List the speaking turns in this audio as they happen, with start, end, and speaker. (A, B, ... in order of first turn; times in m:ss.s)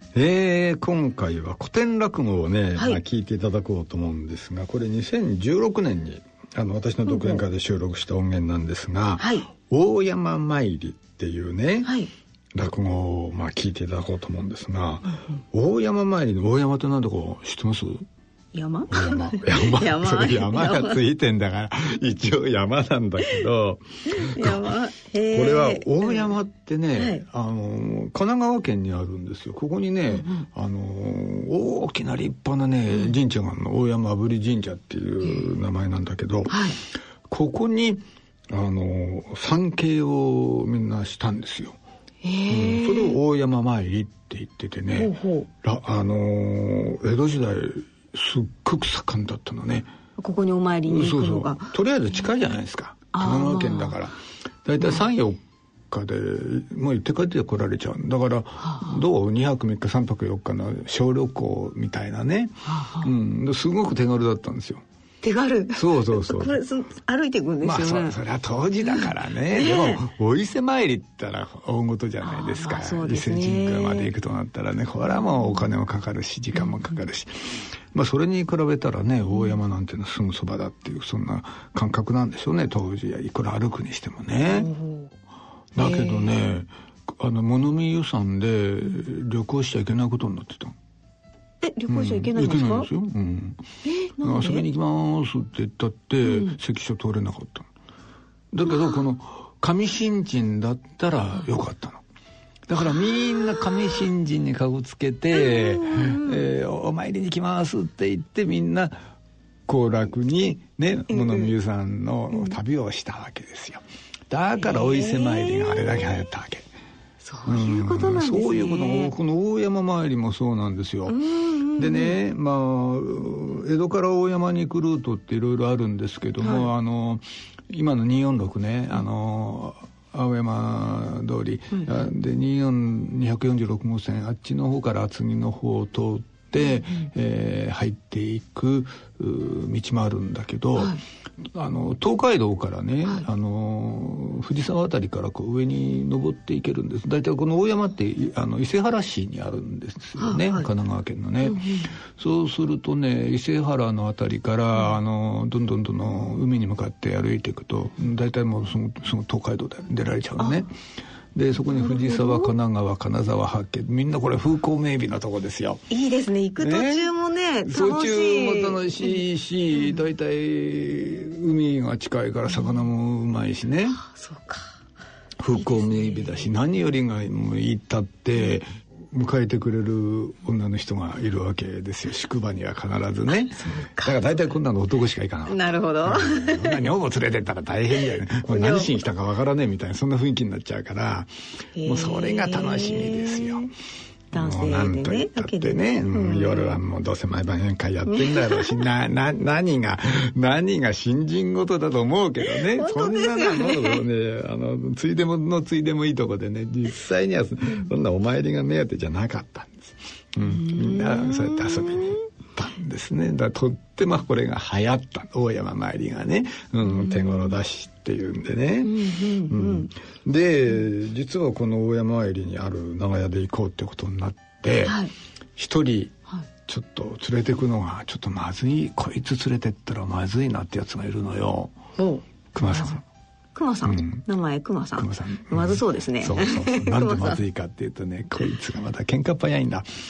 0:00.1-0:11.9 A
0:02.8-0:03.0 B
0:07.1-0:07.4 B
0:09.2-0:09.5 B
0:11.8-0:12.1 B
0:12.5-0:18.0 A
0:18.5-0:21.0 B
0:18.9-0:24.8 A
0:24.1-0:26.3 B
0:25.3-0:36.7 A
0:27.0-0:27.2 B
0:30.1-0:30.5 B
0:36.5-0:36.8 B
0:37.3-0:41.8 A
0:42.2-0:43.2 B
0:42.5-0:49.9 A
0:45.0-0:45.5 B
0:50.2-0:51.7 B
0:50.8-1:04.8 A
0:53.1-0:54.0 B
0:58.6-0:59.0 B
1:02.6-1:03.1 B
1:05.2-1:08.2 B
1:05.8-1:06.6 A
1:07.6-1:24.7 A
1:09.0-1:10.0 B
1:12.2-1:14.1 B
1:15.1-1:15.6 B
1:16.6-1:17.0 B
1:24.5-1:25.1 B
1:25.8-1:30.7 A
1:25.8-1:26.4 B
1:31.6-1:32.9 B
1:31.9-1:33.6 A
1:33.8-1:34.7 B
1:34.2-1:37.7 A
1:36.2-1:36.6 B
1:38.5-1:42.0 A
1:42.7-1:49.0 A
1:45.4-1:46.4 B
1:49.7-1:56.6 A
1:51.1-1:51.5 B
1:54.6-1:56.0 B
1:57.2-1:59.1 B
1:57.5-2:01.2 A
2:01.1-2:02.2 B
2:01.8-2:21.0 A
2:06.4-2:06.7 B
2:21.6-2:40.8 A
2:30.2-2:30.7 B
2:31.4-2:32.0 B
2:41.4-2:45.9 A
2:41.6-2:42.5 B
2:45.9-2:49.2 B
2:46.6-2:47.1 A
2:47.6-2:54.0 A
2:49.8-2:50.1 B
2:54.0-2:54.7 B
2:55.4-3:13.7 A
2:55.6-2:56.5 B
3:03.3-3:04.4 B
3:05.5-3:06.9 B
3:08.4-3:09.0 B
3:11.8-3:13.7 B
3:14.3-3:16.8 B
3:14.3-3:45.0 A
3:18.1-3:18.8 B
3:22.5-3:24.0 B
3:30.4-3:32.0 B
3:36.8-3:37.6 B
3:38.8-3:39.9 B
3:44.8-3:45.1 B
3:45.6-3:46.1 A
3:46.7-3:51.7 A
3:52.0-3:53.0 B
3:52.6-3:53.0 A
3:53.5-3:57.4 B
3:53.9-3:54.2 A
3:55.0-3:59.9 A